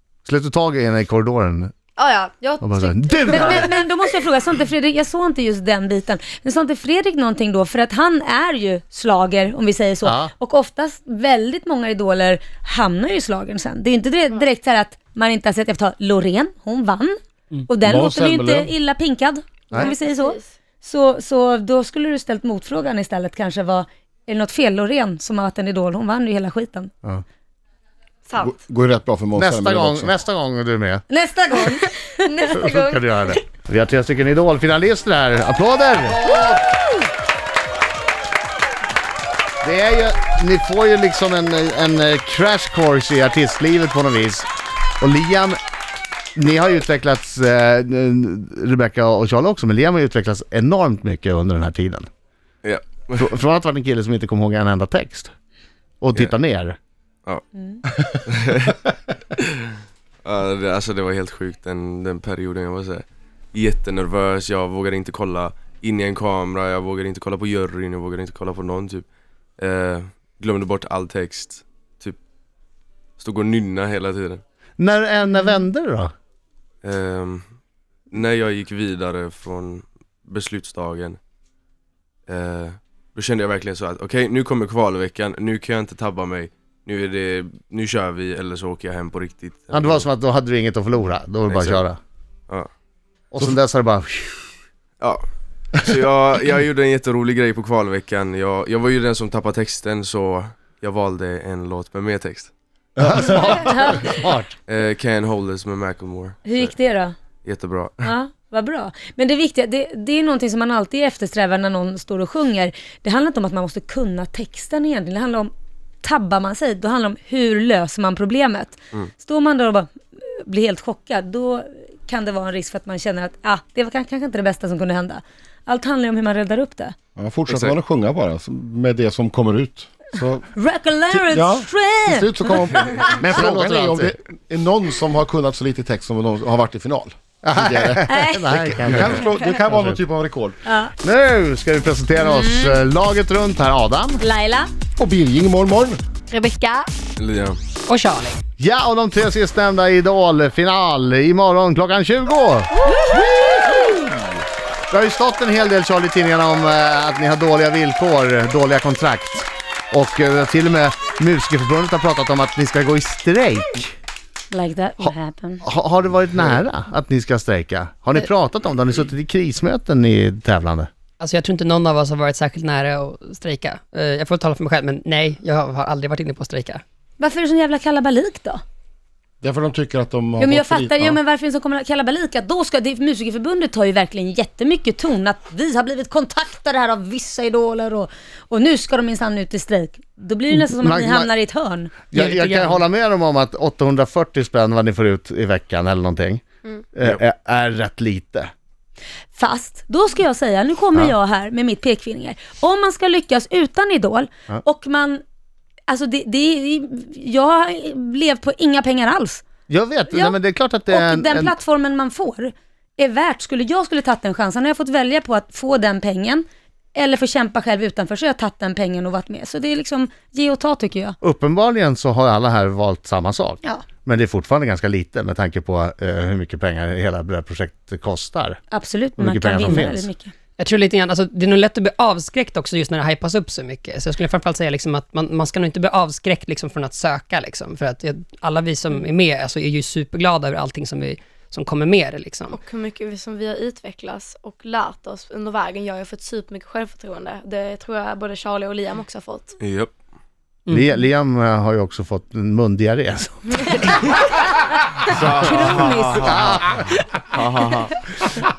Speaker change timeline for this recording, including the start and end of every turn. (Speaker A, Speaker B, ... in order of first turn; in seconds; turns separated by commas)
Speaker A: 0.2-1.7, Speaker B: 1.9-4.1, Speaker A: 2.6-3.7, Speaker C: 3.2-26.9, Speaker A: 10.0-10.3, Speaker D: 17.8-18.7, Speaker B: 19.7-20.5, Speaker B: 28.2-28.6, Speaker D: 28.4-30.1, Speaker A: 29.4-31.1, Speaker C: 31.1-32.1, Speaker B: 31.5-33.4, Speaker A: 32.5-36.3, Speaker B: 36.1-36.7, Speaker A: 39.6-44.5, Speaker A: 45.0-45.6, Speaker A: 46.3-52.1, Speaker E: 52.6-53.3, Speaker A: 53.2-55.3, Speaker A: 56.0-56.8, Speaker E: 57.2-58.8, Speaker E: 59.4-59.7, Speaker E: 60.2-69.0, Speaker E: 69.6-72.2, Speaker E: 73.2-74.4, Speaker A: 74.8-76.1, Speaker E: 76.8-77.4, Speaker E: 78.1-81.2, Speaker E: 82.3-90.0, Speaker A: 89.7-92.0, Speaker E: 91.5-91.8, Speaker A: 93.3-94.5, Speaker E: 95.7-102.5, Speaker A: 103.0-104.5, Speaker C: 103.5-104.2, Speaker E: 104.7-106.7, Speaker C: 106.5-107.1, Speaker E: 107.4-108.1, Speaker C: 108.0-115.5, Speaker C: 116.0-126.9, Speaker D: 127.2-130.5, Speaker E: 127.5-127.8, Speaker C: 130.5-133.2, Speaker D: 131.1-140.6, Speaker A: 133.2-134.1, Speaker A: 137.4-140.0, Speaker C: 138.1-139.1, Speaker C: 140.6-140.9, Speaker A: 141.0-144.2, Speaker C: 142.2-142.8, Speaker C: 144.2-144.7, Speaker D: 145.0-146.0, Speaker B: 146.3-146.9, Speaker E: 147.2-147.6, Speaker F: 147.9-148.4, Speaker A: 148.6-152.8, Speaker D: 153.3-153.8, Speaker A: 154.9-163.9, Speaker C: 164.5-165.6, Speaker A: 165.0-170.9, Speaker F: 171.2-176.8, Speaker C: 177.2-178.6, Speaker D: 179.4-181.2, Speaker C: 180.4-192.1, Speaker A: 190.6-191.3, Speaker A: 192.1-196.4, Speaker F: 192.1-192.8, Speaker A: 196.9-198.5, Speaker C: 199.3-205.2, Speaker C: 205.9-209.4, Speaker A: 209.7-211.6, Speaker C: 210.1-210.3, Speaker C: 210.9-221.2, Speaker A: 221.2-228.6, Speaker C: 228.7-230.3, Speaker A: 229.2-230.1, Speaker F: 230.6-242.6, Speaker B: 242.5-249.5, Speaker E: 249.6-249.9, Speaker F: 250.7-250.9, Speaker A: 250.7-253.6, Speaker E: 255.0-256.8, Speaker C: 255.3-256.6, Speaker A: 256.2-256.8, Speaker E: 257.3-258.0